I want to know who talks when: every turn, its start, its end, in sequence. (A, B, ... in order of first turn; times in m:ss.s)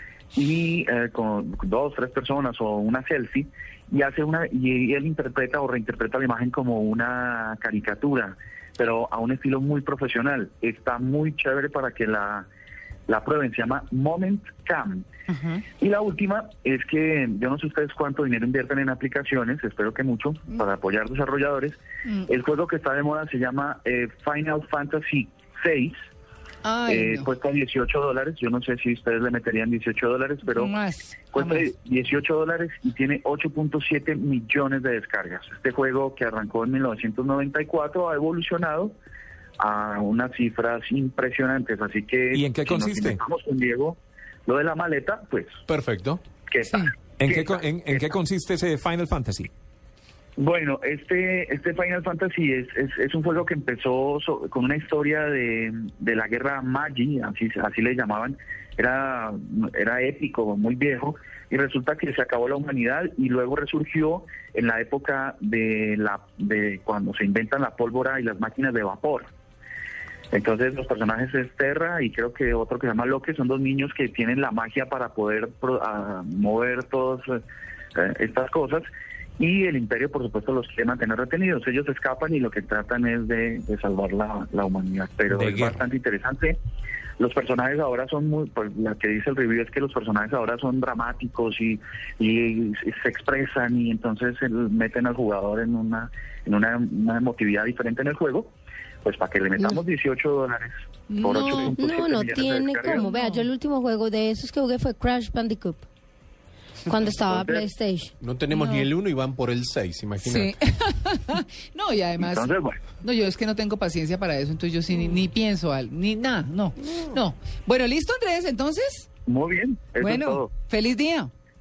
0:00.3-0:12.5 A
0:13.1-0:15.1 A
0:15.3-0:15.6 B
0:15.8-0:26.0 A
0:26.6-0:27.3 B
0:26.9-0:30.7 A
0:30.5-0:31.7 B
0:31.3-0:39.0 A
0:39.6-0:45.6 A
0:42.3-0:43.2 C
0:45.7-0:46.2 D
0:46.5-0:48.1 A
0:47.2-0:49.5 C
0:50.4-1:09.3 A
1:10.3-1:17.4 A
1:18.0-1:18.8 A
1:19.4-1:26.6 A
1:25.3-1:25.8 C
1:27.2-1:38.5 A
1:39.0-1:43.1 A
1:41.1-1:41.8 B
1:41.3-1:45.8 E
1:43.0-1:43.5 B
1:46.9-1:48.1 E
1:47.2-1:47.7 A
1:48.2-1:50.6 D
1:48.5-1:48.9 B
1:50.2-1:59.1 B
1:52.2-1:52.8 A
1:59.3-2:00.5 A
2:00.0-2:01.3 B